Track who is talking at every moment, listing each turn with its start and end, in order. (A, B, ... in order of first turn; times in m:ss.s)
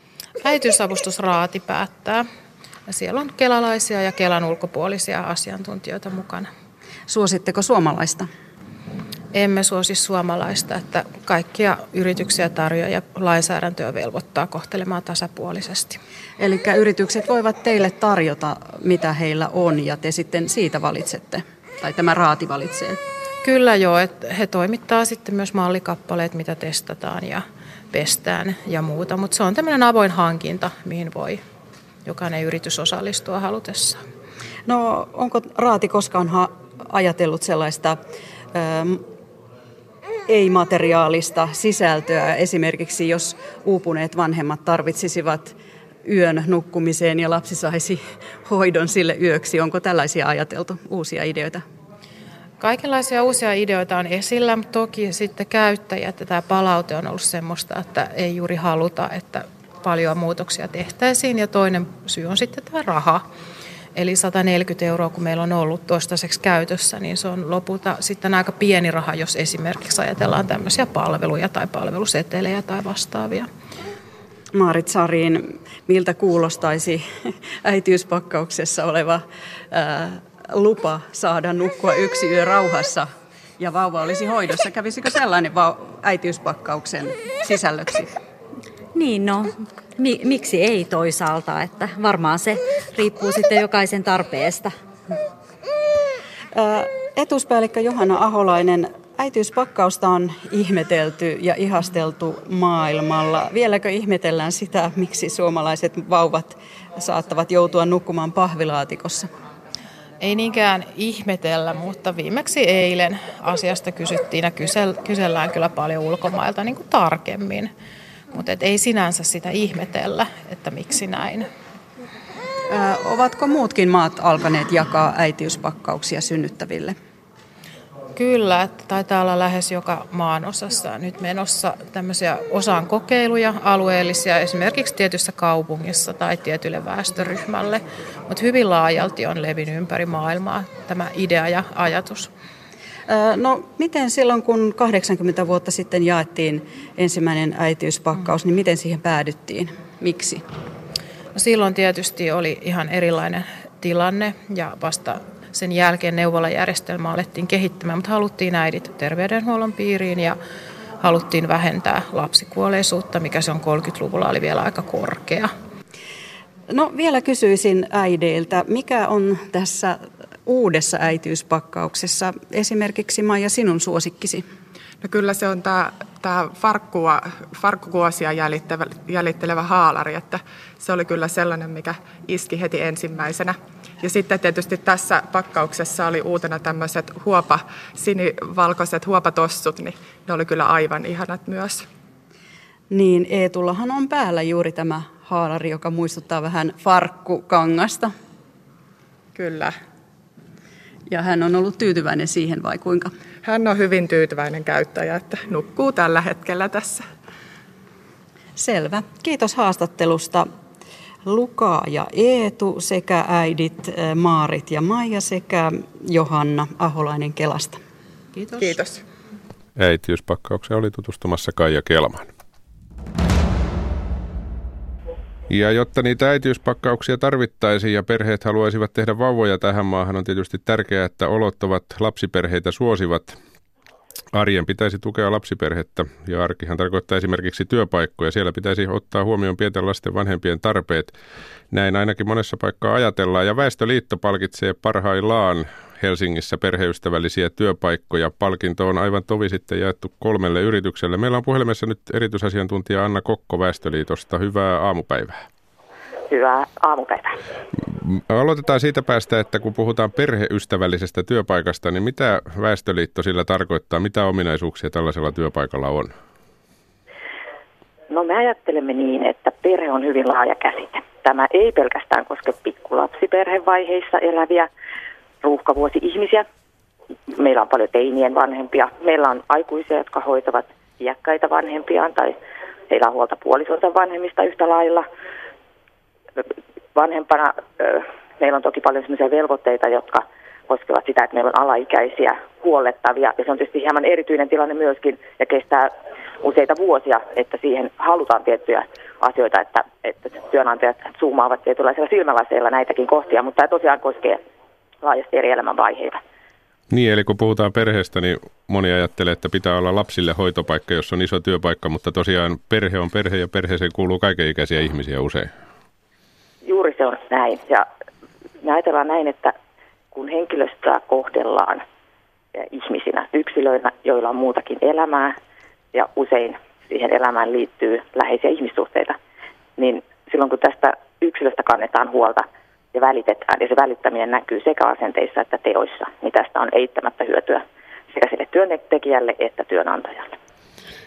0:00.4-0:02.3 A
0:02.9-0:06.5 A
0:07.1-0:08.3 B
0:09.3-0:16.0 A
0:16.4-0:23.0 B
0:23.4-0:31.4 A
0:32.0-0:34.0 A
0:34.7-0:38.0 B
0:38.5-0:39.1 B
0:40.3-0:51.6 B
0:52.6-1:03.3 A
1:04.0-1:13.5 A
1:14.6-1:23.1 B
1:23.6-1:28.1 B
1:28.9-1:34.7 C
1:36.5-1:49.3 B
1:50.2-1:57.7 A
1:58.3-2:01.5 A
2:02.7-2:07.0 B
2:08.2-2:22.3 A
2:23.1-2:30.4 B
2:31.4-2:40.4 A
2:41.0-2:45.5 A
2:46.7-2:54.4 B
2:55.0-3:11.9 D
3:12.9-3:18.1 B
3:19.4-3:19.7 D
3:21.1-3:23.1 B
3:23.4-3:27.0 D
3:28.6-3:30.5 B
3:31.3-3:37.8 B
3:38.4-3:38.7 A
3:38.6-3:39.0 D
3:39.8-3:42.3 E
3:45.5-3:53.4 E
3:54.3-4:01.1 E
4:01.7-4:15.4 E
4:16.3-4:17.4 F
4:17.8-4:26.1 E
4:28.1-4:34.7 F
4:35.4-4:36.4 F
4:37.3-4:42.4 F
4:42.9-4:45.1 F
4:47.0-5:04.4 F
5:05.0-5:06.2 F
5:06.9-5:15.5 E
5:16.6-5:17.9 F
5:18.6-5:19.5 F
5:20.1-5:21.8 F
5:22.6-5:25.4 F
5:25.9-5:29.2 F
5:29.8-5:40.4 F